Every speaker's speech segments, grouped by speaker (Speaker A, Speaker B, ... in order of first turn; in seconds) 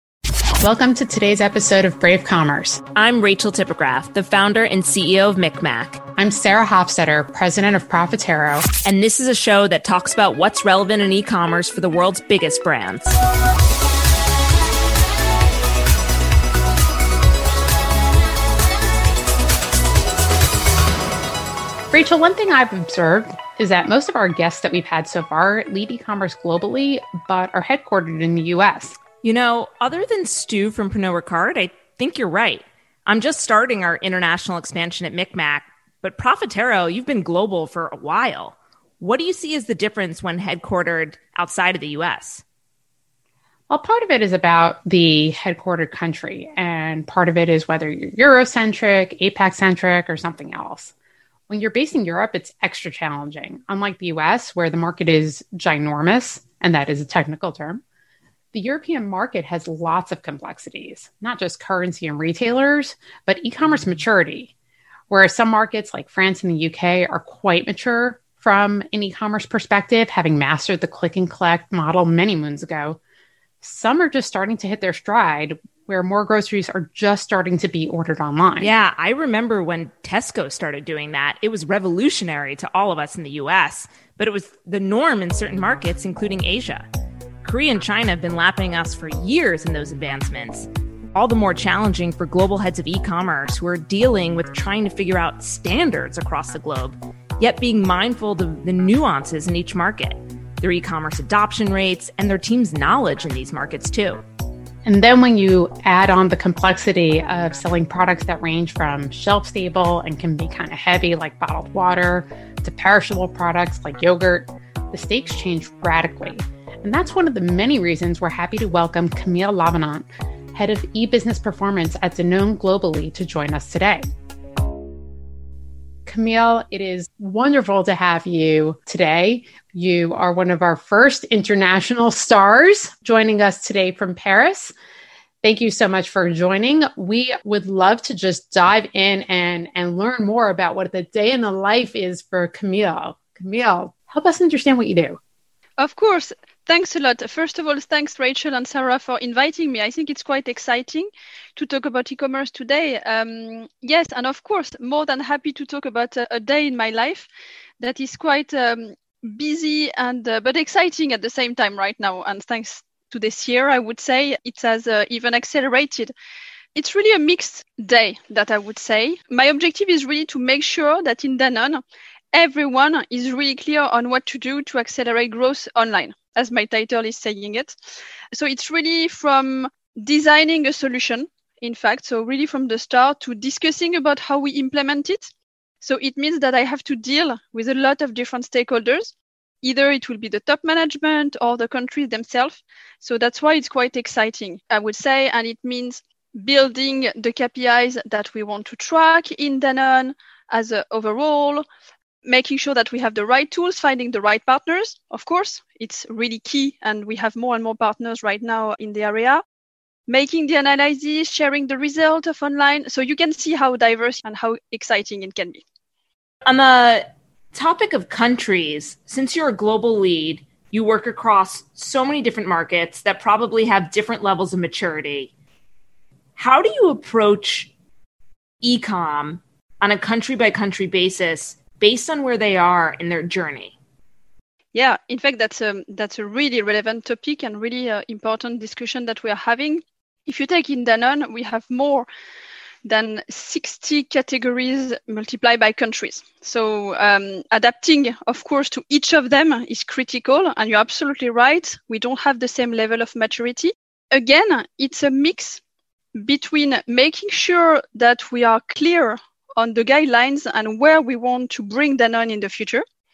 Speaker A: 0.6-2.8, 6.2-8.6, 21.9-29.0, 43.7-50.9, 51.5-57.8, 58.5-64.5, 65.1-73.0, 73.6-78.7, 104.8-124.0, 126.0-134.7, 135.4-145.2
Speaker B: 2.9-6.0, 8.8-13.2, 29.2-42.4, 78.6-86.9, 87.4-104.2, 216.4-225.3, 226.4-227.7, 228.6-233.8
Speaker C: 145.8-157.3, 157.8-166.1, 166.7-171.8, 172.3-177.7, 178.3-185.3, 185.8-201.6, 202.2-209.4, 210.1-215.6, 234.7-242.1, 242.8-255.6, 256.2-262.8